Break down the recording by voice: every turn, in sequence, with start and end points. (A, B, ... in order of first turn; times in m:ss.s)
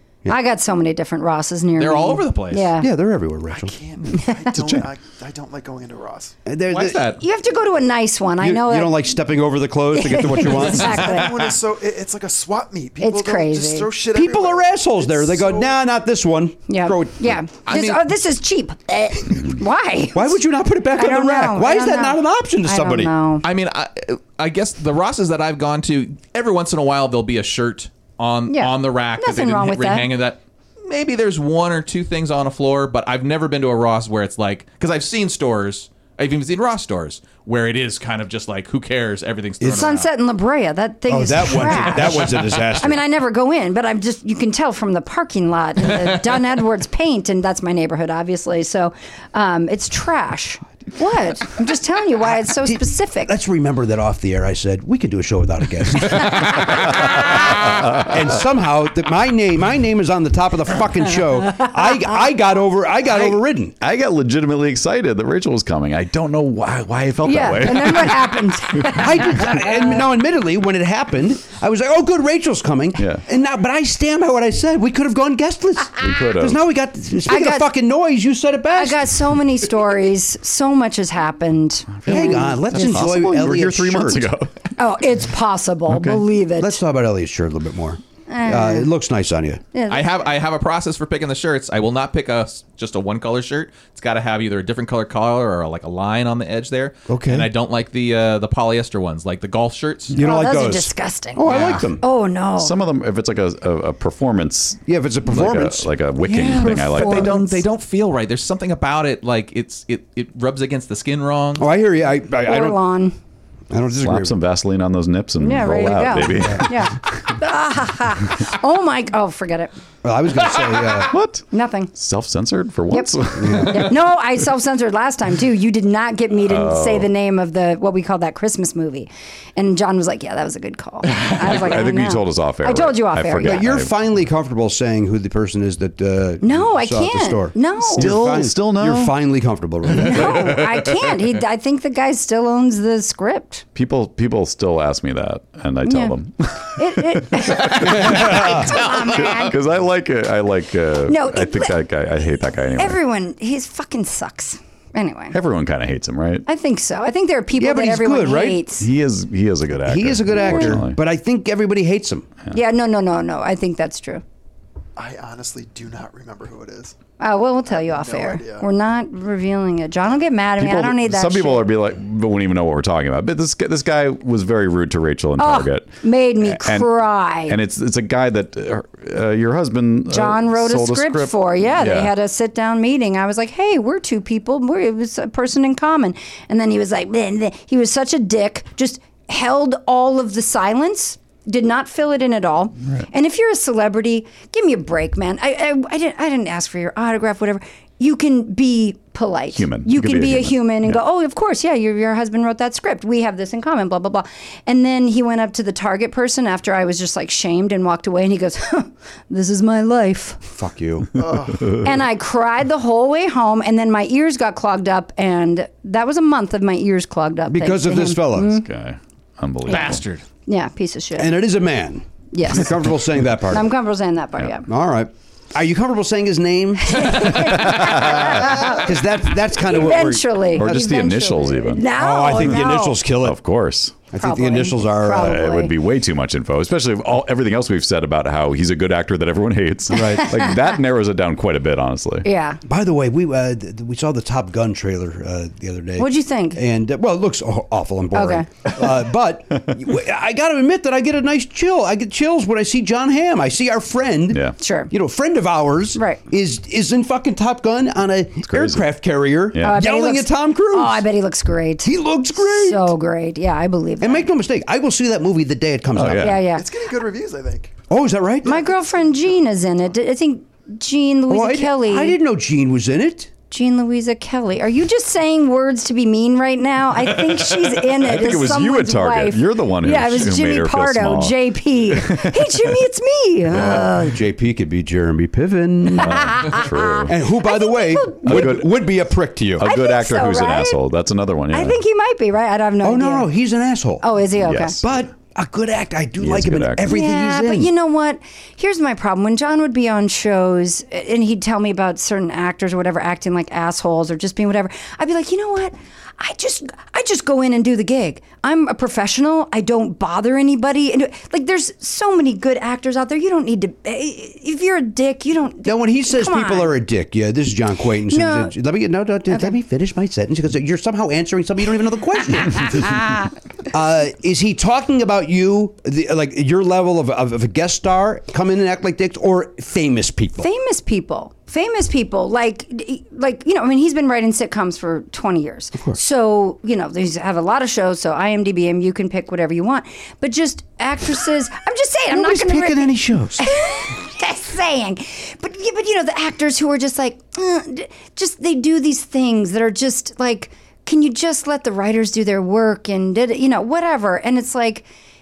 0:00.3-0:02.9 A
0:01.8-0:02.7 B
0:02.8-0:03.7 C
0:03.5-0:06.4 D
0:04.2-0:04.5 A
0:04.5-0:04.8 E
0:06.4-0:07.1 C
0:06.7-0:07.2 B
0:07.2-0:09.0 A
0:08.4-0:11.2 C
0:09.9-0:11.5 A
0:10.4-0:15.8 D
0:13.0-0:13.9 A
0:14.1-0:17.4 C
0:16.7-0:20.4 A
0:17.7-0:18.0 B
0:20.1-0:23.1 C
0:21.0-0:23.5 A
0:23.4-0:40.1 B
0:28.5-0:30.1 A
0:39.6-0:39.9 C
0:39.7-0:53.3 A
0:41.1-0:43.0 C
0:52.5-1:03.7 C
0:56.8-0:58.1 E
1:03.1-1:08.9 E
1:07.2-1:09.9 A
1:08.9-1:19.0 C
1:13.0-1:13.2 E
1:16.0-1:16.6 E
1:17.3-1:17.7 A
1:18.7-1:22.9 A
1:22.0-1:24.7 E
1:22.1-1:24.3 C
1:24.8-1:26.8 A
1:25.9-1:26.2 E
1:26.6-1:29.6 C
1:28.3-1:28.9 A
1:29.7-1:30.2 A
1:29.9-1:40.2 B
1:37.1-1:37.5 C
1:40.1-1:42.0 C
1:40.2-1:42.8 A
1:41.5-1:41.9 B
1:42.6-1:47.5 E
1:44.9-1:45.9 C
1:46.2-1:51.7 B
1:46.3-1:47.6 A
1:51.6-1:52.8 C
1:52.4-1:53.2 A
1:53.7-1:54.4 C
1:54.0-1:57.3 E
1:55.4-1:59.7 A
2:00.0-2:01.1 C
2:01.1-2:04.0 E
2:01.5-2:01.9 A
2:02.9-2:13.7 A
2:03.4-2:03.8 C
2:06.5-2:07.1 E
2:11.1-2:13.9 E
2:13.4-2:20.7 C
2:16.4-2:18.2 A
2:17.9-2:19.2 E
2:19.9-2:23.6 A
2:20.0-2:20.5 E
2:23.8-2:33.0 E
2:25.8-2:26.2 A
2:26.8-2:29.6 A
2:27.8-2:28.7 C
2:31.1-2:31.8 A
2:32.8-2:35.4 A
2:35.3-2:36.5 E
2:36.5-2:38.9 A
2:37.6-2:38.6 C
2:38.8-2:41.0 E
2:39.8-2:42.3 C
2:40.4-2:40.8 A
2:42.5-2:44.2 A
2:45.0-2:47.0 D
2:47.2-2:51.7 A
2:47.7-2:48.7 D
2:50.6-2:55.9 E
2:55.4-2:57.6 A
2:56.4-2:56.9 E
2:57.4-3:02.1 E
3:00.1-3:30.5 A
3:19.5-3:21.0 E
3:30.5-3:31.3 C
3:31.2-3:31.7 D
3:31.7-3:38.7 A
3:37.5-3:38.6 C
3:38.5-3:40.0 E
3:39.7-3:40.2 B
3:40.5-3:41.3 A
3:41.2-3:43.7 C
3:42.3-3:42.8 A
3:43.5-3:44.7 A
3:44.7-3:50.9 C
3:46.8-3:48.9 A
3:47.4-3:48.7 E
3:49.6-3:53.0 A
3:50.6-3:51.9 E
3:51.9-3:53.4 C
3:53.2-3:54.0 E
3:54.1-3:55.5 C
3:54.2-3:55.8 A
3:55.1-4:02.3 E
3:59.9-4:00.3 C
4:00.0-4:00.7 A
4:02.2-4:02.6 A
4:02.6-4:21.0 C
4:06.0-4:06.6 A
4:08.1-4:08.5 A
4:14.3-4:14.6 E
4:14.6-4:14.9 A
4:16.0-4:16.2 A
4:18.4-4:18.9 E
4:19.5-4:19.8 E
4:19.6-4:24.3 A
4:21.8-4:22.9 C
4:24.0-4:26.4 C
4:25.9-4:26.4 E
4:26.2-4:26.7 A
4:26.5-4:27.7 D
4:27.9-4:28.7 C
4:28.5-4:32.2 A
4:31.3-4:33.3 C
4:33.5-4:44.2 A
4:37.5-4:42.8 E
4:43.5-4:43.9 E
4:43.5-4:46.4 C
4:45.9-4:47.2 E
4:46.0-4:48.6 A
4:47.1-4:49.7 C
4:48.2-4:48.7 E
4:49.6-4:51.8 E
4:49.6-4:50.8 A
4:51.5-4:53.3 A
4:52.8-4:54.0 C
4:54.0-4:54.8 A
4:54.4-4:54.8 E
4:54.8-4:57.7 C
4:56.2-4:56.9 E
4:56.8-5:16.8 A
5:15.6-5:23.0 C
5:18.1-5:18.5 A
5:22.5-5:23.3 A
5:23.7-5:30.5 C
5:30.4-5:54.9 A
5:42.1-5:43.5 C